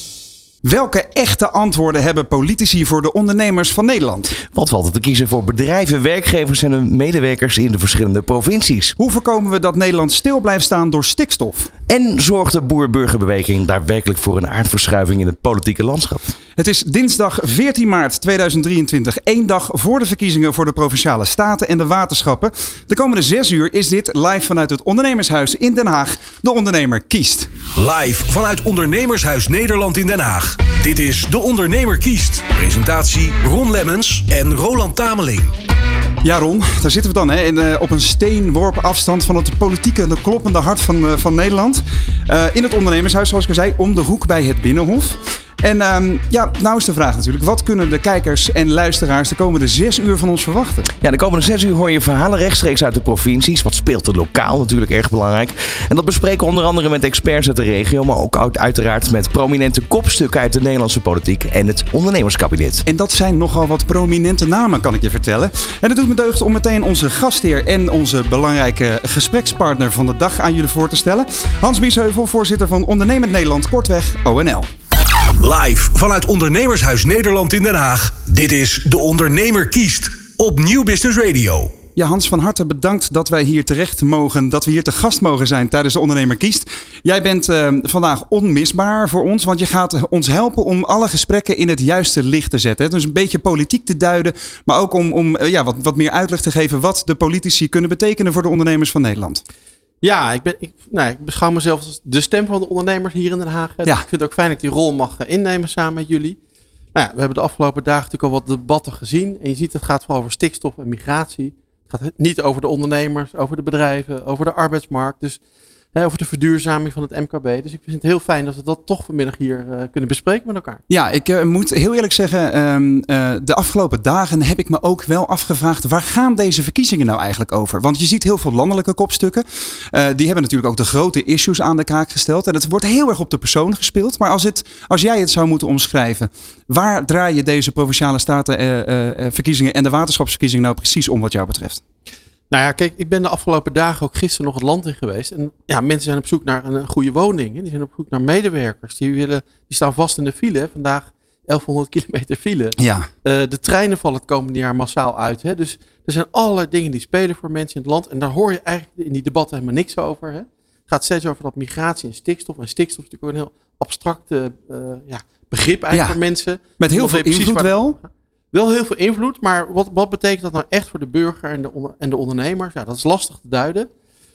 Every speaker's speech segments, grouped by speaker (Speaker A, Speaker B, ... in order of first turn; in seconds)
Speaker A: 0.6-4.3, 9.0-11.7, 16.6-27.5, 36.2-50.9, 62.9-74.7, 82.0-99.4, 120.9-141.8, 152.8-153.1, 165.9-166.2, 166.8-168.0
Speaker B: 4.4-8.9, 11.9-16.2, 51.0-62.8
Speaker C: 27.8-35.5, 75.4-81.7
Speaker D: 100.0-106.4, 107.0-115.4, 115.9-120.8, 142.5-173.9